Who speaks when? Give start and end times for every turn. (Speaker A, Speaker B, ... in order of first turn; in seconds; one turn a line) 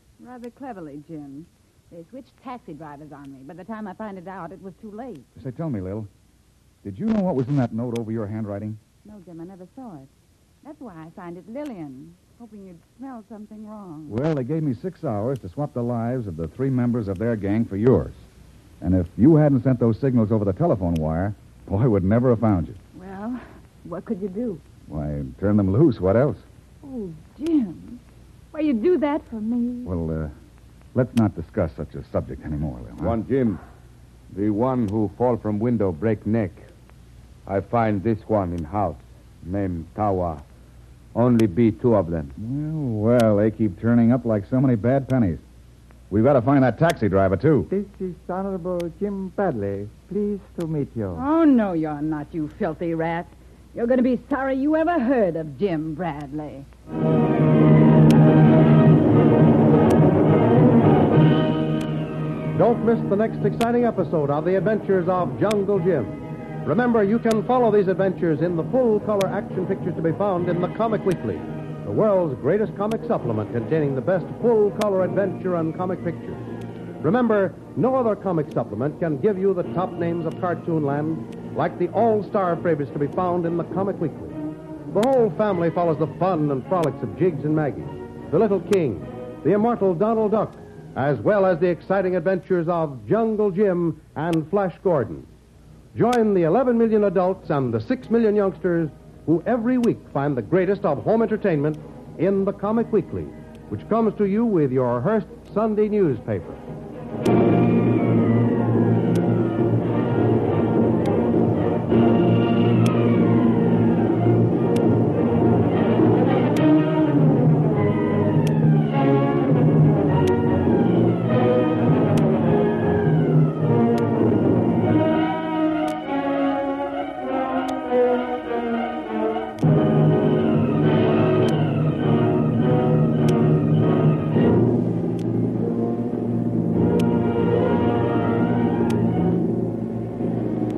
Speaker A: 0.2-5.3
Speaker B: 5.3-6.1
Speaker B: 6.8-8.8
Speaker A: 9.0-10.1
Speaker A: 10.6-14.2
Speaker B: 14.1-18.2
Speaker B: 18.8-22.8
Speaker A: 22.9-24.6
Speaker B: 24.9-26.4
Speaker A: 26.8-28.0
Speaker A: 28.5-29.9
Speaker B: 29.9-30.3
Speaker B: 30.9-33.2
Speaker C: 33.0-33.6
Speaker C: 34.3-36.7
Speaker C: 37.5-40.4
Speaker C: 41.1-42.3
Speaker B: 42.4-45.4
Speaker B: 46.1-47.7
Speaker D: 47.7-51.1
Speaker A: 51.1-56.7
Speaker E: 62.6-76.4
Speaker E: 77.0-84.4
Speaker E: 84.9-95.3
Speaker E: 95.9-106.6